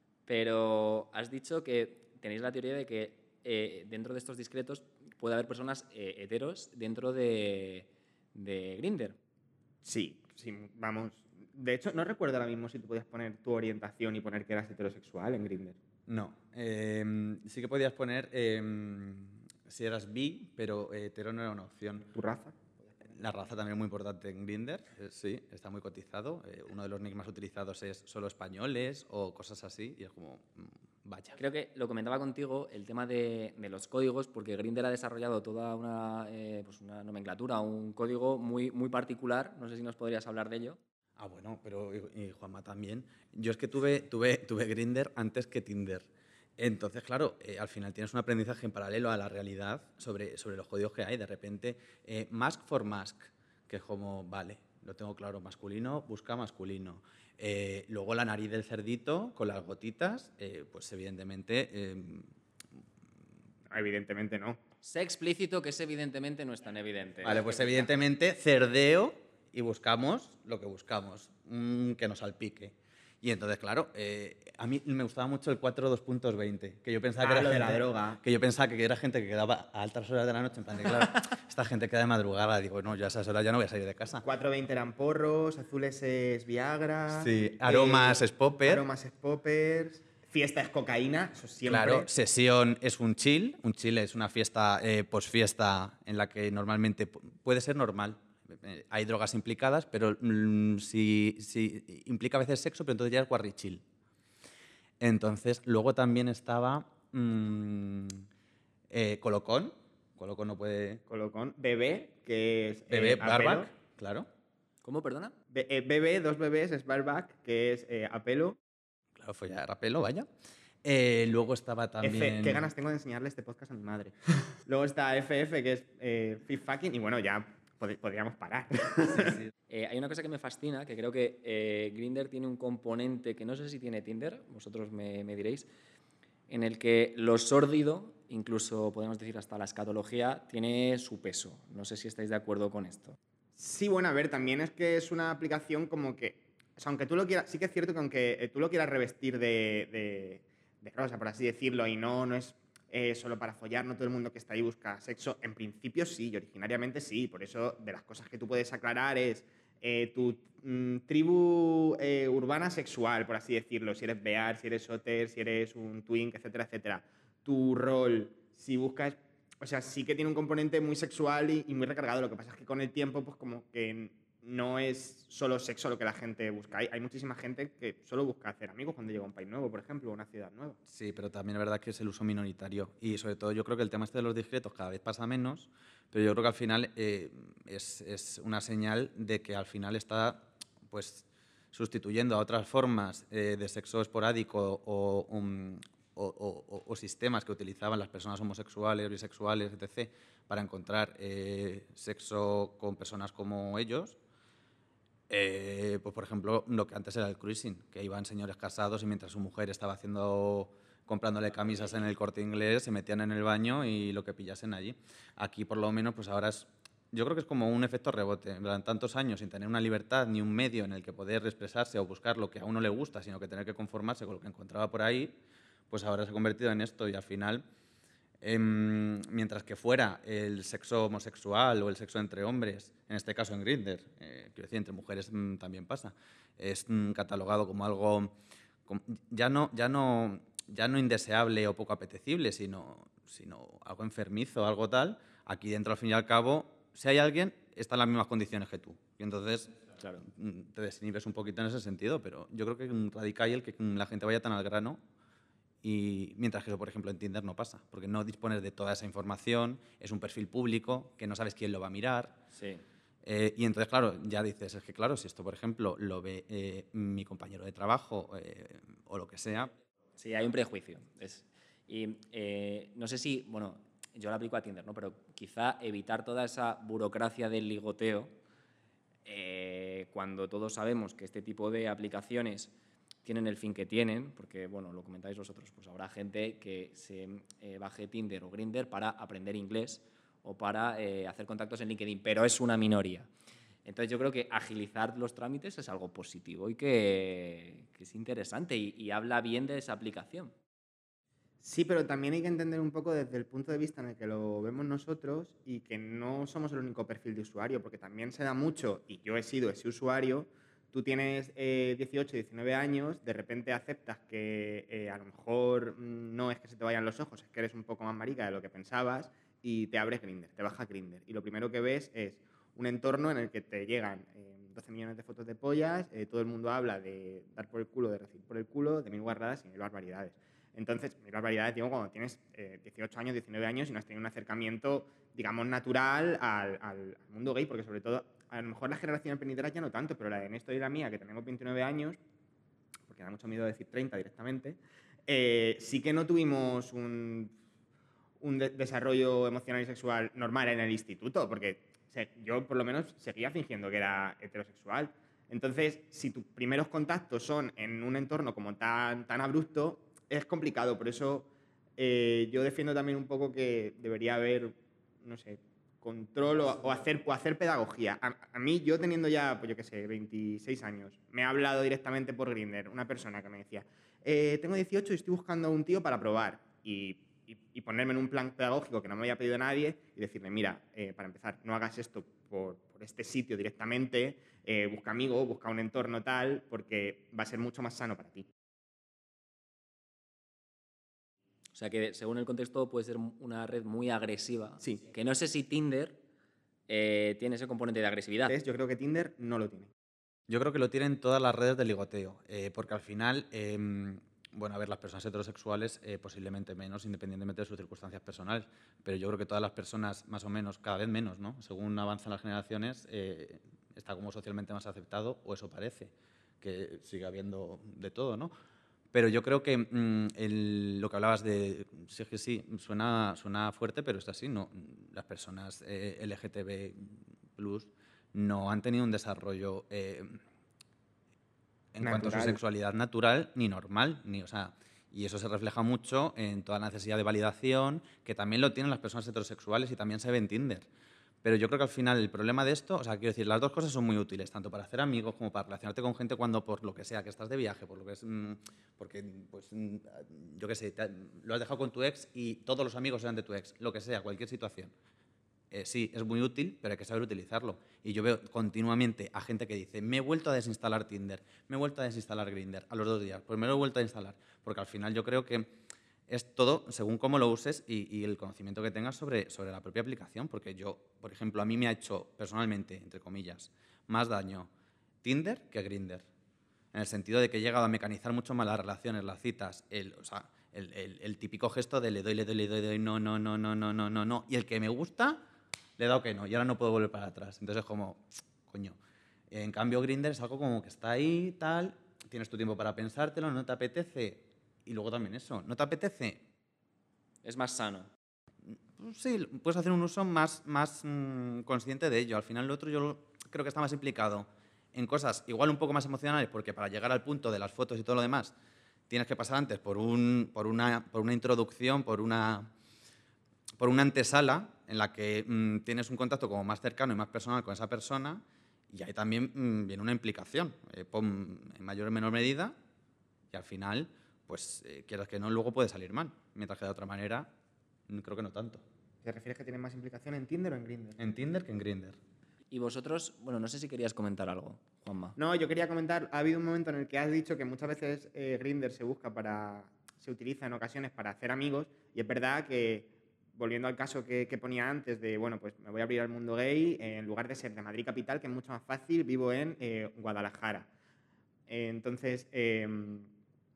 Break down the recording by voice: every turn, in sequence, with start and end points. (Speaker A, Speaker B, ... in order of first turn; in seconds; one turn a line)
Speaker A: 0.3-9.2
Speaker B: 9.8-15.8
Speaker C: 16.1-22.1
Speaker B: 22.1-22.6
Speaker C: 23.1-31.4
Speaker A: 31.4-40.8
Speaker C: 41.2-62.3
Speaker B: 63.7-64.6
Speaker A: 64.8-67.5
Speaker C: 67.2-84.2
Speaker B: 77.2-78.2
Speaker B: 84.2-92.1
Speaker C: 87.1-88.8
Speaker C: 91.7-103.8
Speaker C: 105.0-108.3
Speaker C: 108.9-111.0
Speaker B: 111.1-113.7
Speaker C: 112.9-114.3
Speaker A: 114.8-115.3
Speaker B: 115.5-118.6
Speaker C: 119.2-120.3
Speaker C: 120.8-122.7
Speaker B: 122.0-129.4
Speaker C: 129.2-129.5
Speaker A: 129.7-135.7
Speaker A: 136.5-143.2
Speaker B: 143.6-180.8
Speaker C: 180.9-204.2
Speaker C: 205.3-225.4
Speaker C: 225.9-227.6
Speaker C: 228.4-238.4
Speaker C: 238.9-255.0
Speaker C: 255.8-262.4
Speaker A: 262.5-262.8
Speaker C: 263.2-269.7
Speaker A: 270.2-278.3
Speaker A: 279.3-282.7
Speaker A: 283.2-293.3
Speaker A: 293.9-300.5
Speaker B: 301.6-342.2
Speaker B: 343.1-347.5
Speaker B: 348.4-388.5
Speaker A: 391.8-396.2
Speaker A: 396.9-398.6
Speaker B: 398.5-399.9
Speaker C: 400.5-418.5
Speaker C: 419.1-430.4
Speaker C: 431.9-440.9
Speaker B: 432.0-432.6
Speaker C: 441.4-454.9
Speaker C: 455.7-465.7
Speaker C: 466.3-474.7
Speaker C: 475.2-476.3
Speaker C: 476.9-485.4
Speaker C: 486.0-489.0
Speaker C: 489.5-496.4
Speaker A: 497.4-498.1
Speaker C: 498.7-508.5
Speaker C: 509.1-512.7
Speaker C: 513.8-522.8
Speaker C: 523.5-527.5
Speaker C: 528.1-528.8
Speaker B: 529.2-531.2
Speaker C: 531.2-532.2
Speaker A: 532.7-535.4
Speaker B: 535.4-550.9
Speaker B: 551.7-553.3